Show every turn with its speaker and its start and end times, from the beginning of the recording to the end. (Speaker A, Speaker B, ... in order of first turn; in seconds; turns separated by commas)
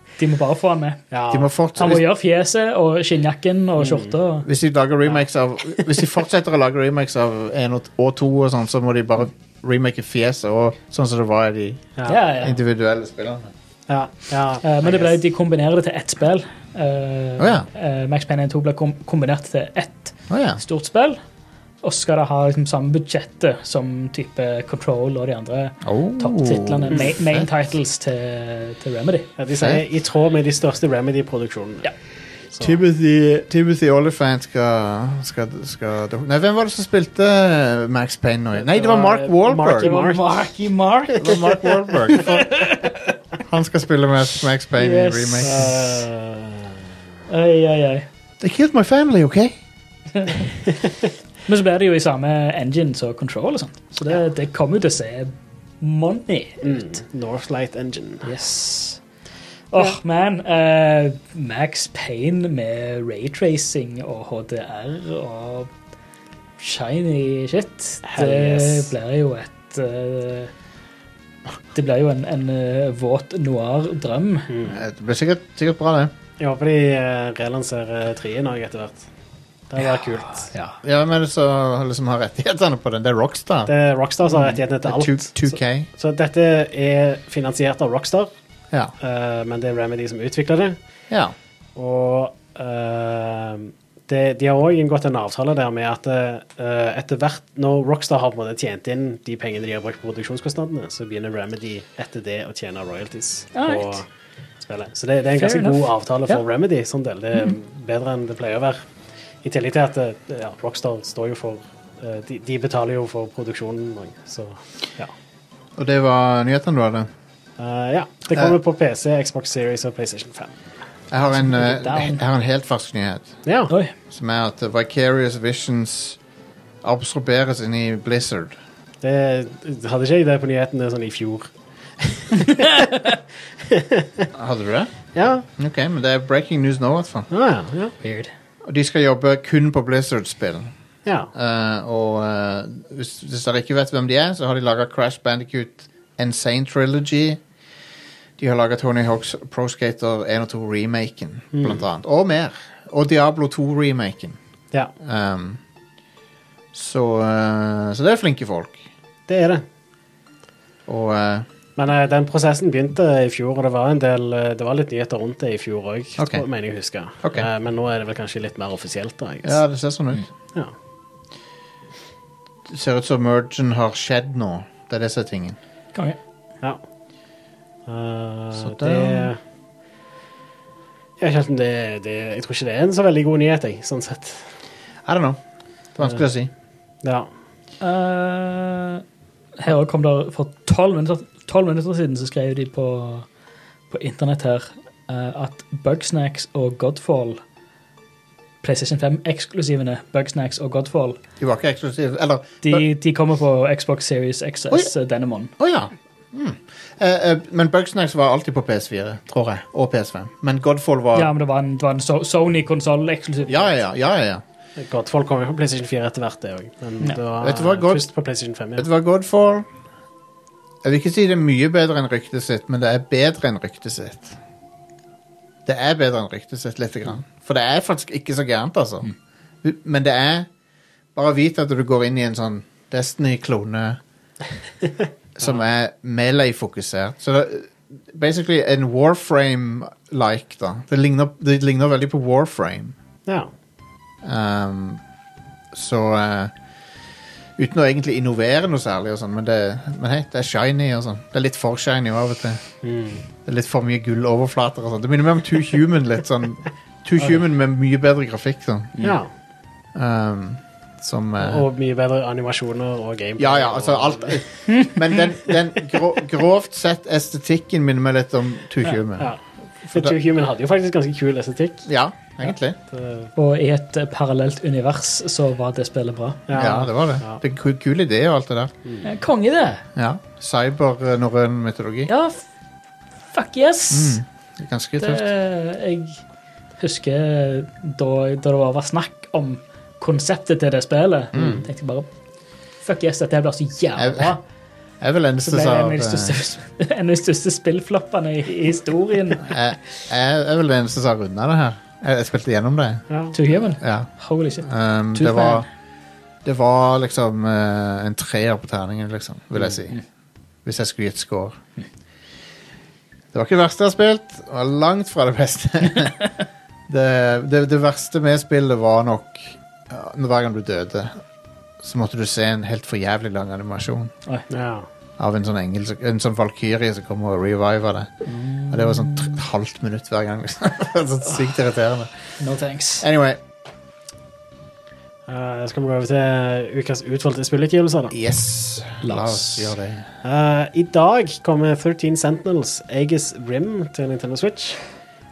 Speaker A: 0.2-1.0, Speaker B: 1.1-2.0, Speaker C: 1.3-2.0, Speaker A: 1.8-4.5, Speaker B: 3.8-4.1, Speaker C: 4.4-13.5, Speaker A: 12.1-12.6, Speaker B: 13.9-15.2, Speaker A: 14.6-21.2, Speaker C: 17.4-17.7, Speaker C: 20.3-20.6, Speaker A: 21.8-29.3, Speaker C: 25.8-27.5, Speaker B: 29.4-31.9, Speaker C: 29.6-29.8, Speaker B: 32.5-32.8, Speaker C: 32.6-39.9, Speaker B: 38.5-40.3, Speaker A: 39.8-41.3, Speaker B: 41.1-42.2, Speaker C: 41.2-42.8, Speaker A: 42.2-43.0, Speaker C: 43.5-45.6, Speaker A: 44.8-45.8, Speaker B: 45.4-46.8, Speaker A: 47.3-48.0, Speaker C: 48.4-49.6, Speaker A: 50.2-50.5, Speaker A: 51.5-56.9, Speaker B: 56.6-58.3, Speaker A: 58.2-59.0, Speaker A: 59.7-65.7, Speaker A: 66.6-70.5, Speaker B: 68.0-68.9, Speaker A: 71.7-74.5, Speaker B: 74.5-74.8, Speaker C: 74.7-76.1, Speaker B: 76.4-79.0, Speaker B: 79.7-80.5, Speaker A: 79.8-80.8, Speaker C: 80.8-83.7, Speaker B: 83.7-88.3, Speaker A: 84.3-84.6, Speaker C: 84.8-85.9, Speaker B: 89.0-90.8, Speaker C: 91.1-91.3, Speaker B: 91.7-104.1, Speaker A: 103.5-104.0, Speaker B: 104.7-108.8, Speaker A: 105.3-106.4, Speaker B: 109.4-115.1, Speaker C: 115.8-117.1, Speaker B: 117.6-120.7, Speaker C: 121.1-123.4, Speaker A: 121.4-122.2, Speaker B: 123.5-123.7, Speaker C: 124.1-126.2, Speaker C: 126.8-128.6, Speaker B: 129.0-133.1, Speaker B: 133.7-134.3, Speaker C: 134.3-137.3, Speaker B: 135.1-135.4, Speaker B: 137.3-137.9, Speaker A: 138.0-138.3, Speaker C: 138.6-140.7, Speaker C: 141.3-147.4, Speaker C: 148.4-154.4, Speaker B: 151.5-151.8, Speaker C: 155.0-155.6, Speaker C: 156.7-158.9, Speaker B: 159.3-159.6, Speaker C: 160.9-161.5, Speaker B: 161.8-169.6, Speaker C: 166.2-166.4, Speaker C: 167.2-167.5, Speaker C: 169.4-170.2, Speaker C: 172.7-175.6, Speaker B: 177.8-179.4, Speaker C: 178.6-179.3, Speaker B: 181.2-184.4, Speaker C: 185.1-185.4, Speaker C: 185.9-186.5, Speaker B: 187.0-187.3, Speaker A: 187.8-189.0, Speaker A: 189.6-193.2, Speaker A: 193.9-197.4, Speaker A: 198.6-201.2, Speaker C: 201.4-202.8, Speaker A: 202.6-205.5, Speaker C: 205.6-211.3, Speaker A: 211.1-213.7, Speaker C: 213.5-214.4, Speaker B: 214.8-218.9, Speaker C: 217.4-218.0, Speaker C: 218.8-219.7, Speaker C: 220.8-224.4, Speaker C: 225.7-229.1, Speaker C: 229.6-230.5, Speaker C: 231.1-234.0, Speaker C: 235.3-242.9, Speaker C: 244.2-245.0, Speaker C: 245.7-246.5, Speaker C: 247.6-252.6, Speaker B: 252.8-253.2, Speaker C: 253.4-258.9, Speaker B: 259.0-259.3, Speaker C: 259.9-261.7, Speaker B: 261.4-264.4, Speaker C: 263.4-269.3, Speaker B: 269.2-271.9, Speaker C: 269.9-270.2, Speaker C: 271.9-272.8, Speaker B: 272.9-273.3, Speaker A: 273.4-276.4, Speaker B: 276.5-277.4, Speaker C: 276.5-278.7, Speaker A: 279.0-279.8, Speaker C: 279.9-282.1, Speaker A: 282.1-282.4, Speaker A: 283.3-284.2, Speaker C: 283.9-285.2, Speaker A: 285.0-286.2, Speaker A: 286.8-292.1, Speaker C: 291.3-291.6, Speaker A: 292.8-294.4, Speaker C: 293.9-294.4, Speaker C: 295.0-296.4, Speaker A: 295.4-299.5, Speaker C: 299.4-303.0, Speaker B: 303.1-303.3, Speaker A: 303.3-305.6, Speaker C: 303.8-304.1, Speaker C: 304.6-305.7, Speaker C: 306.4-310.0, Speaker C: 310.6-311.6, Speaker C: 313.3-316.3, Speaker C: 316.9-321.2, Speaker C: 321.8-324.1, Speaker B: 324.5-324.9, Speaker C: 325.2-328.1, Speaker A: 328.3-329.4, Speaker C: 328.7-332.1, Speaker A: 332.4-333.0, Speaker C: 333.0-333.4, Speaker B: 335.3-338.1, Speaker C: 338.1-340.1, Speaker A: 339.0-339.7, Speaker B: 340.2-344.8